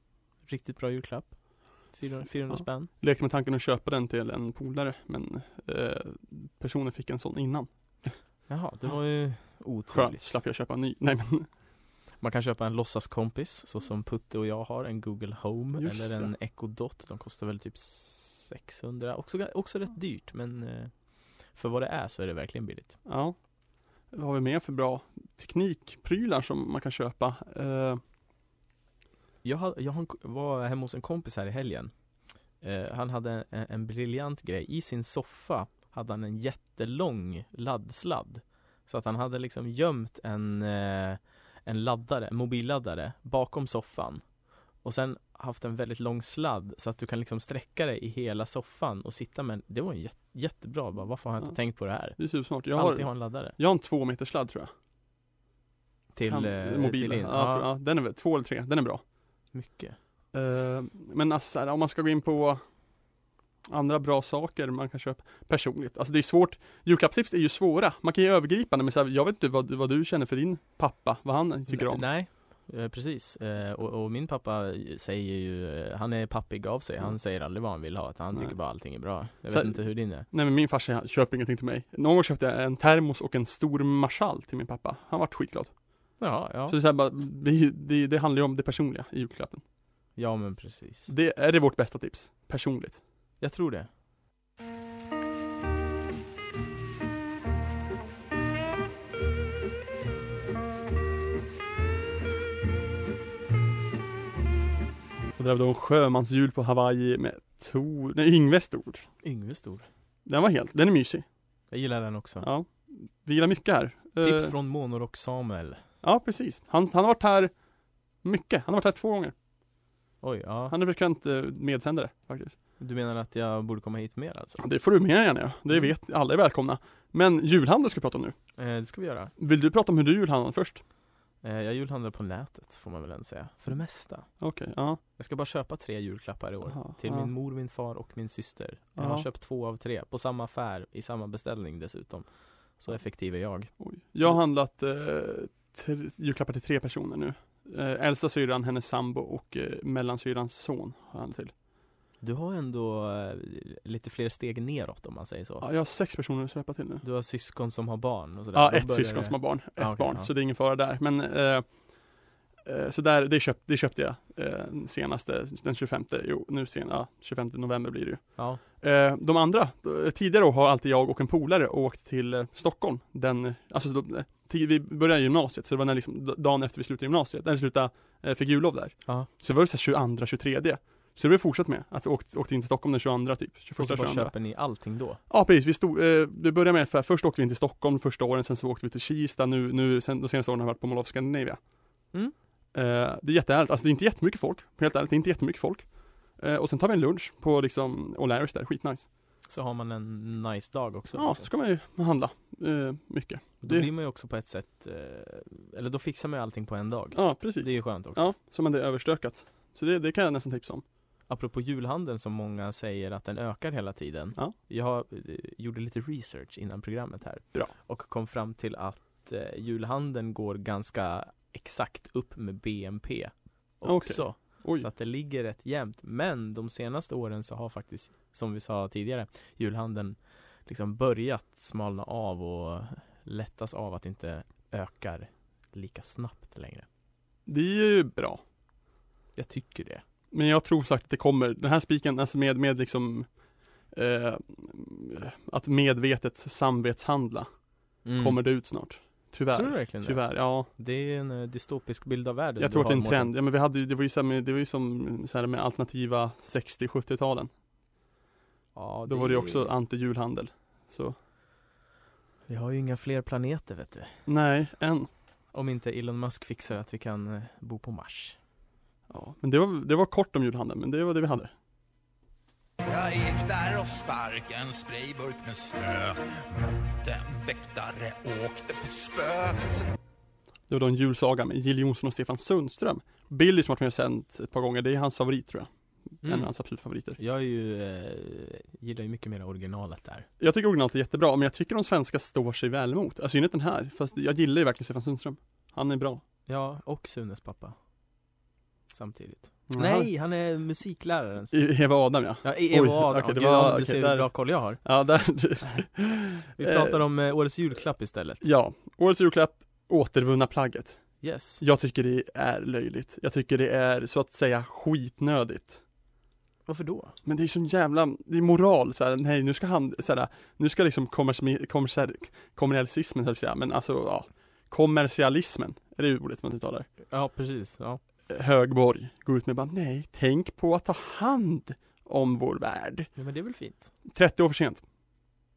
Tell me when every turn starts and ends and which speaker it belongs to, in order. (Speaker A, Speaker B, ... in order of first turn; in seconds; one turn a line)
Speaker A: 0.5-2.9
Speaker B: 2.5-8.1
Speaker A: 8.5-10.4
Speaker B: 9.9-11.5
Speaker A: 12.2-23.0
Speaker B: 15.8-16.3
Speaker B: 23.1-23.4
Speaker B: 24.1-28.0
Speaker A: 29.4-31.9
Speaker A: 32.6-44.3
Speaker A: 44.8-53.6
Speaker B: 52.2-54.7
Speaker A: 56.1-57.7
Speaker B: 56.2-59.0
Speaker A: 59.5-60.0
Speaker B: 60.3-62.6
Speaker B: 63.6-72.0
Speaker A: 71.7-80.3
Speaker B: 79.5-85.7
Speaker A: 86.2-86.8
Speaker B: 86.7-89.6
Speaker A: 90.2-91.1
Speaker B: 91.1-93.0
Speaker A: 93.4-93.9
Speaker B: 105.4-109.1
Speaker A: 109.2-109.9
Speaker B: 110.2-111.2
Speaker A: 111.7-112.5
Speaker B: 112.4-114.5
Speaker A: 114.2-115.8
Speaker B: 116.0-117.5
Speaker B: 118.2-119.3
Speaker A: 120.2-120.7
Speaker B: 120.7-122.6
Speaker A: 122.8-124.6
Speaker B: 124.6-128.3
Speaker A: 128.6-129.3
Speaker B: 129.4-130.8
Speaker A: 131.4-134.3
Speaker B: 134.4-135.0
Speaker A: 135.2-143.7
Speaker B: 136.7-137.3
Speaker B: 139.0-139.3
Speaker B: 143.8-151.5
Speaker A: 152.2-155.6
Speaker B: 155.6-157.0
Speaker A: 157.0-160.3
Speaker B: 158.5-162.1
Speaker B: 162.6-184.4
Speaker A: 168.3-168.6
Speaker A: 183.8-185.2
Speaker B: 185.3-191.6
Speaker B: 192.7-199.1
Speaker A: 199.5-201.5
Speaker B: 201.1-203.9
Speaker A: 203.6-208.3
Speaker B: 207.1-210.8
Speaker A: 211.3-236.8
Speaker B: 223.8-224.8
Speaker B: 237.4-238.4
Speaker A: 239.3-240.0
Speaker B: 240.3-243.4
Speaker B: 243.9-247.5
Speaker A: 248.0-248.4
Speaker B: 248.1-250.7
Speaker A: 249.5-253.3
Speaker B: 252.6-257.5
Speaker A: 258.7-259.7
Speaker B: 259.1-261.1
Speaker A: 262.5-264.1
Speaker B: 264.3-265.1
Speaker A: 265.5-268.4
Speaker B: 269.1-271.5
Speaker C: 272.8-279.9
Speaker B: 280.7-285.7
Speaker A: 286.2-286.5
Speaker B: 286.2-287.2
Speaker A: 287.2-290.3
Speaker B: 290.4-296.2
Speaker A: 296.5-297.8
Speaker A: 298.9-301.7
Speaker B: 299.7-300.1
Speaker B: 301.5-306.9
Speaker A: 302.4-304.8
Speaker A: 306.6-308.4
Speaker B: 308.4-315.8
Speaker A: 311.2-311.6
Speaker A: 316.7-317.1
Speaker B: 317.2-326.9
Speaker A: 327.1-328.0
Speaker B: 328.3-333.1
Speaker A: 333.1-333.9
Speaker B: 334.1-334.8